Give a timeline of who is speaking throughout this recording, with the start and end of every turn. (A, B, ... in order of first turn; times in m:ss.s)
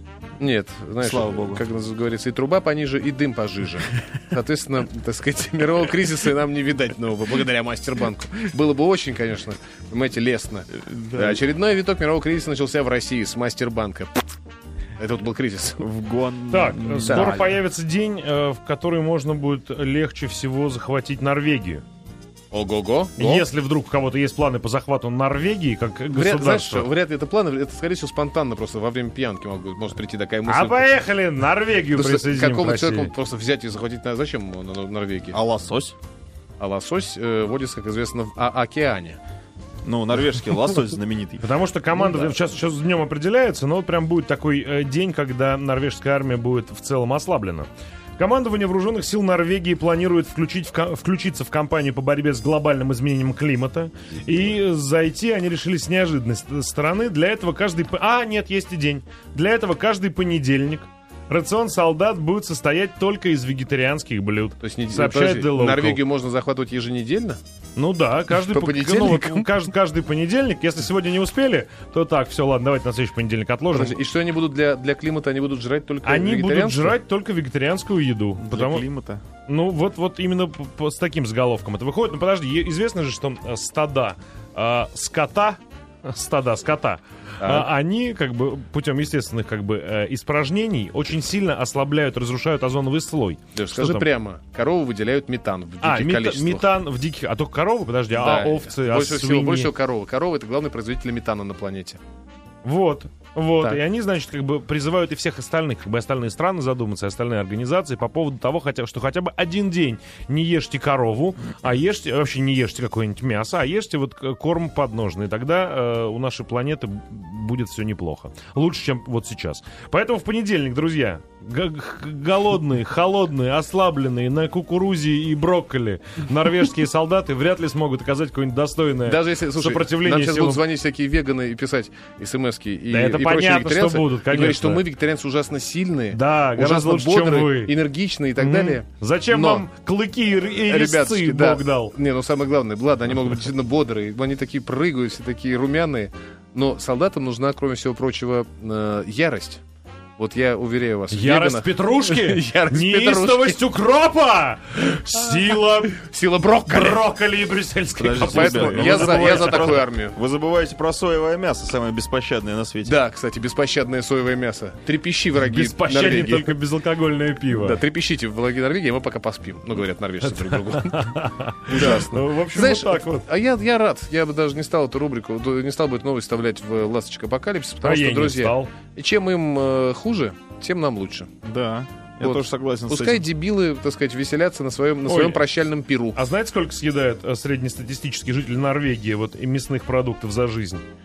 0:00.4-0:14.3 A
0:01.0-0:01.6 B
0:10.8-0:11.4 B
0:15.0-0:15.8 A
0:15.8-0:17.5 B
0:16.5-0:21.8 C
0:17.0-0:17.4 A
0:22.5-0:23.5 A
0:23.2-0:26.9 C
0:26.1-0:30.9 A
0:30.5-0:33.1 C
0:31.9-0:35.4 A
0:35.3-0:36.0 B
0:36.6-0:39.2 A
0:39.8-0:41.5 B
0:41.4-1:06.0 C
0:42.0-0:42.3 A
1:04.6-1:07.4 A
1:07.8-1:14.0 C
1:08.3-1:09.5 A
1:13.7-1:17.0 A
1:16.0-1:18.8 C
1:18.4-1:19.2 B
1:19.5-1:34.1 C
1:27.4-1:27.7 A
1:33.6-1:36.7 A
1:35.8-1:39.7 C
1:38.1-1:42.0 A
1:42.6-2:10.6 C
2:09.0-2:19.7 A
2:12.9-2:14.8 C
2:16.1-2:17.8 C
2:18.4-2:21.9 C
2:20.6-2:29.6 A
2:30.2-2:33.6 A
2:31.1-2:36.0 C
2:35.2-2:37.0 A
2:36.7-2:39.6 C
2:38.0-2:43.0 B
2:38.3-2:40.1 A
2:42.8-2:46.5 A
2:45.5-2:47.8 C
2:47.5-2:51.1 A
2:50.3-2:53.2 C
2:51.7-3:01.3 A
2:51.7-2:52.4 B
2:57.8-2:58.7 C
3:01.4-3:03.3 B
3:02.2-3:06.2 A
3:05.0-3:05.4 C
3:06.1-3:10.8 C